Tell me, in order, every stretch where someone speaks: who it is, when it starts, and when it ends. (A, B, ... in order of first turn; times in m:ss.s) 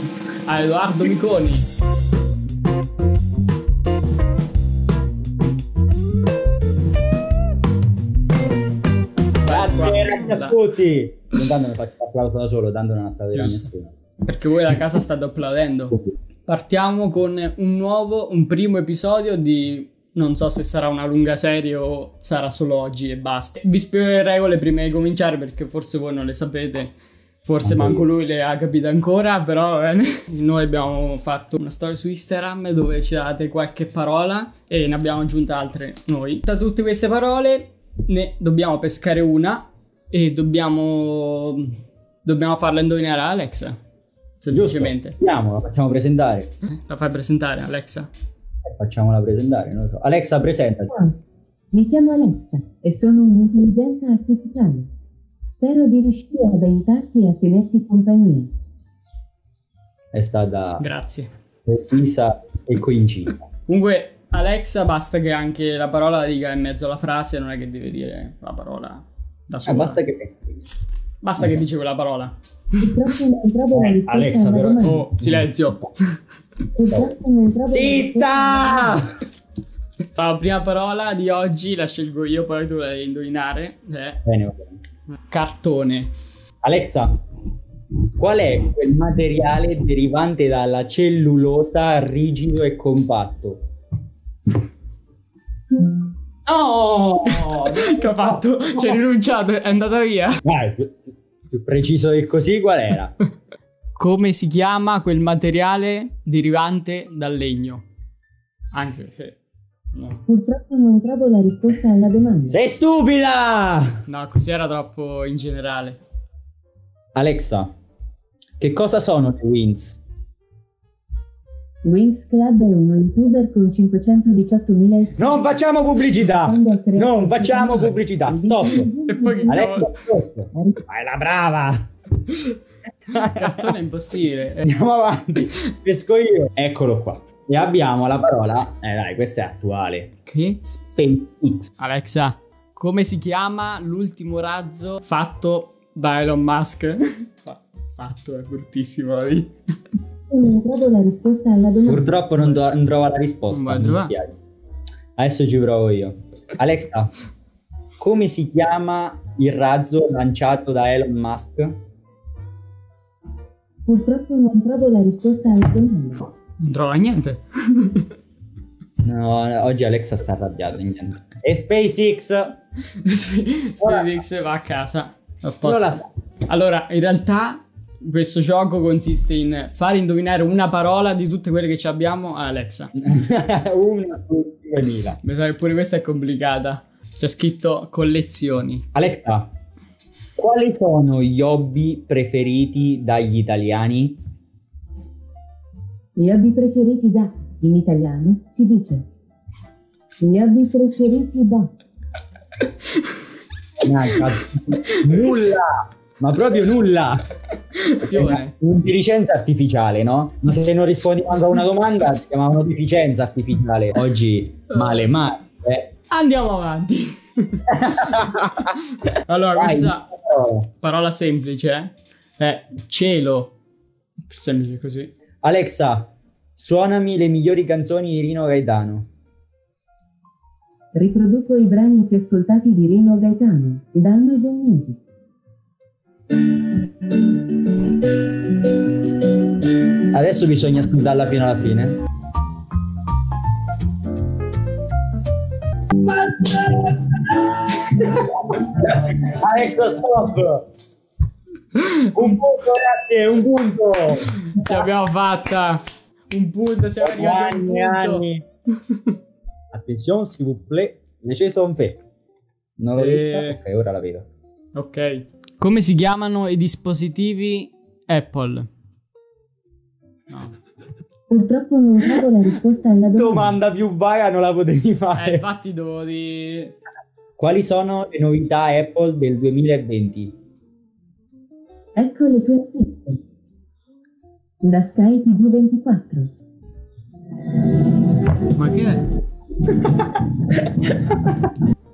0:00.5-0:01.6 A
0:09.4-0:10.6 A
0:09.4-0:13.9 B
0:13.3-0:13.7 A
0:14.2-0:43.8 A
0:27.6-0:28.1 B
0:44.4-0:45.2 A
0:44.5-0:46.5 B
0:46.7-0:48.1 A
0:48.6-0:50.9 B
0:50.9-0:51.1 C
0:51.7-0:54.9 C
0:55.5-0:58.5 C
1:00.1-1:00.8 B
1:00.8-1:01.3 A
1:01.7-1:03.4 B
1:03.7-1:10.0 A
1:09.6-1:10.6 B
1:11.2-1:12.4 A
1:11.4-1:11.6 B
1:12.8-1:15.0 C
1:13.7-1:15.8 B
1:14.8-1:15.9 A
1:16.7-1:19.0 C
1:17.7-1:19.2 B
1:20.1-1:24.2 A
1:24.2-1:24.8 B
1:25.2-1:26.1 A
1:26.6-1:27.2 B
1:28.2-1:33.6 B
1:36.4-1:39.0 B
1:37.2-1:40.4 A
1:40.4-1:43.1 B
1:44.0-1:47.8 A
1:48.7-1:49.4 A
1:49.9-1:50.2 A
1:50.3-1:52.6 C
1:52.5-1:54.0 B
1:54.1-1:56.0 A
1:57.1-1:57.7 B
1:58.6-2:00.0 B
2:01.8-2:05.4 C
2:05.2-2:08.9 B
2:06.4-2:09.6 C
2:09.0-2:09.9 A
2:09.5-2:11.8 B
2:10.5-2:10.8 C
2:13.1-2:13.7 B
2:13.3-2:14.8 A
2:14.6-2:20.1 B
2:20.2-2:20.6 A
2:20.6-2:21.7 B
2:21.8-2:29.5 A
2:30.3-2:32.2 C
2:31.8-2:34.4 B
2:33.5-2:34.1 A
2:35.2-2:37.1 B
2:38.0-2:41.8 B
2:43.8-2:46.3 C
2:46.6-2:48.1 A
2:49.0-2:52.6 B
2:53.0-2:55.9 A
2:53.8-2:54.2 B
2:55.6-2:56.1 B
2:56.5-3:02.9 A
3:03.0-3:05.2 B
3:05.2-3:08.8 A
3:08.9-3:09.5 B
3:10.4-3:14.2 B
3:16.2-3:19.0 C
3:20.2-3:21.7 C
3:23.8-3:27.2 B
3:27.7-3:28.5 A
3:28.0-3:35.9 B
3:34.7-3:35.1 A
3:36.1-3:40.1 A
3:37.7-3:38.7 B
3:39.5-3:40.7 B
3:40.8-3:43.5 A
3:44.3-3:45.1 A
3:45.4-3:49.1 B
3:50.9-3:55.0 C
4:00.0-4:02.0 B
4:06.0-4:10.6 B
4:11.8-4:12.0 A
4:12.1-4:14.9 B
4:14.5-4:18.3 A
4:17.0-4:18.4 B
4:19.7-4:22.0 B
4:22.8-4:24.3 B
4:23.0-4:23.6 A
4:24.7-4:28.7 A
4:30.3-4:30.5 A
4:31.3-4:33.6 C
4:33.2-4:35.4 B
4:35.1-4:36.8 A
4:37.4-4:40.3 B
4:42.0-4:43.2 C
4:44.6-4:46.3 C
4:48.5-4:49.0 A